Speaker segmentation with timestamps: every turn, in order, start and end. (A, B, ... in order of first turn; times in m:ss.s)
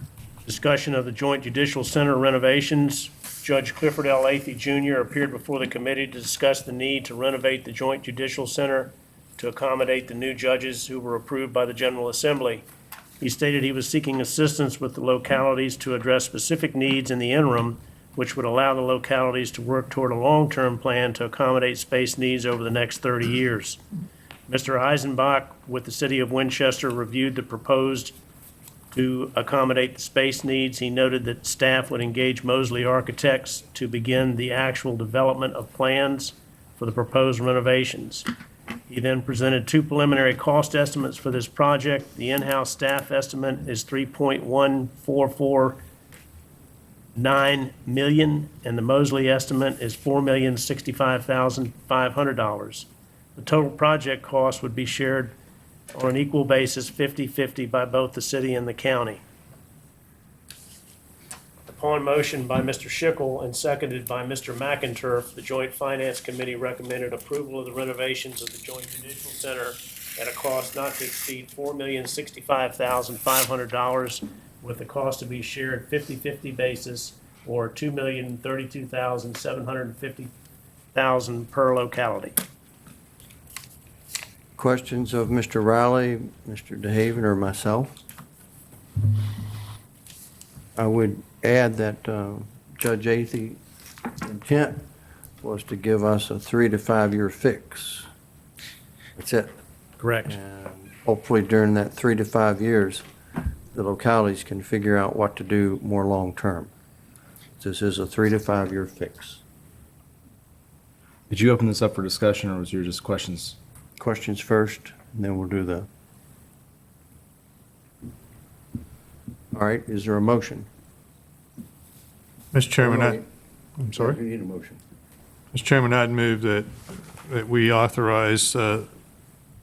0:00.4-0:12.7 A
0:13.2-0:23.8 A
0:24.5-0:28.2 A
0:28.9-0:38.3 A
0:38.9-0:45.8 A
0:47.2-0:55.4 A
0:55.9-0:59.2 A
1:01.7-1:20.3 A
1:20.9-1:22.4 A
1:24.6-1:28.0 B
1:30.8-1:33.6 B
1:34.2-1:34.8 B
1:35.4-1:38.1 B
1:39.2-1:39.5 B
1:40.0-1:40.4 A
1:40.3-1:43.0 B
1:43.7-1:46.7 B
1:47.6-1:49.4 B
1:51.3-1:53.6 C
1:54.0-1:55.9 B
1:59.5-2:00.7 B
2:02.5-2:03.2 D
2:02.8-2:03.2 B
2:03.8-2:04.2 D
2:03.9-2:04.8 B
2:05.5-2:06.7 D
2:07.3-2:08.9 D